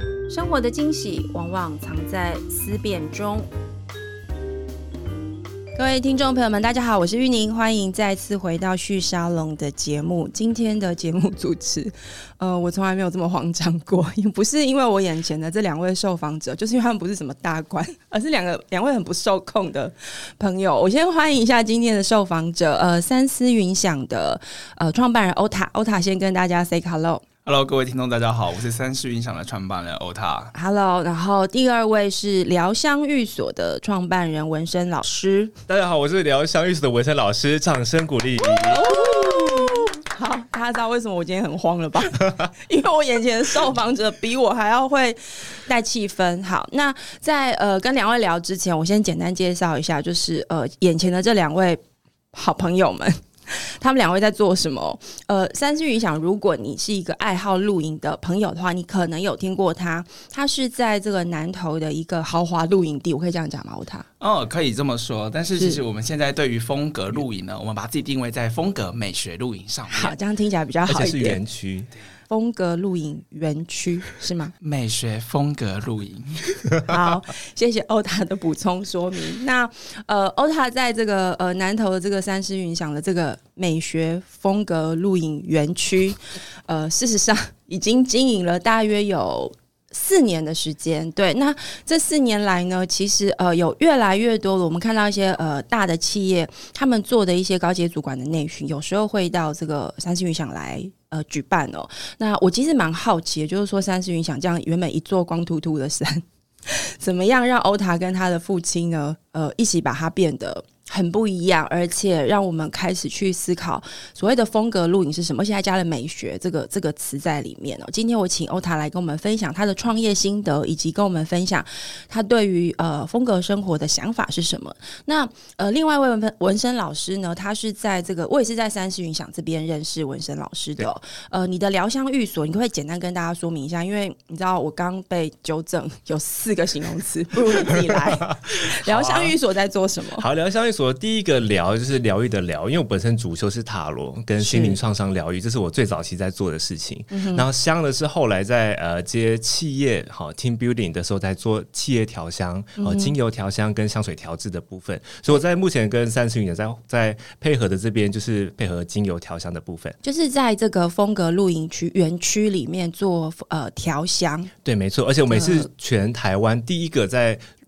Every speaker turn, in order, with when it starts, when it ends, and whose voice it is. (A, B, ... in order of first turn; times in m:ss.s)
0:00.3-0:03.5 A
0:05.8-0:27.2 A
0:27.5-0:30.5 B
0:30.5-0:35.5 A
0:35.7-0:39.0 C
0:38.6-0:51.8 A
0:52.3-1:04.0 A
1:04.2-1:10.2 B
1:05.6-1:05.8 A
1:09.9-1:11.4 A
1:10.9-1:11.9 C
1:12.3-1:14.5 A
1:14.6-1:16.7 B
1:16.8-2:20.3 A
2:17.7-2:18.0 C
2:18.7-2:19.4 C
2:20.2-2:40.0 C
2:24.4-2:24.8 A
2:27.1-2:27.4 A
2:32.8-2:33.1 A
2:40.0-2:44.5 A
2:44.6-2:47.4 C
2:45.3-2:45.7 A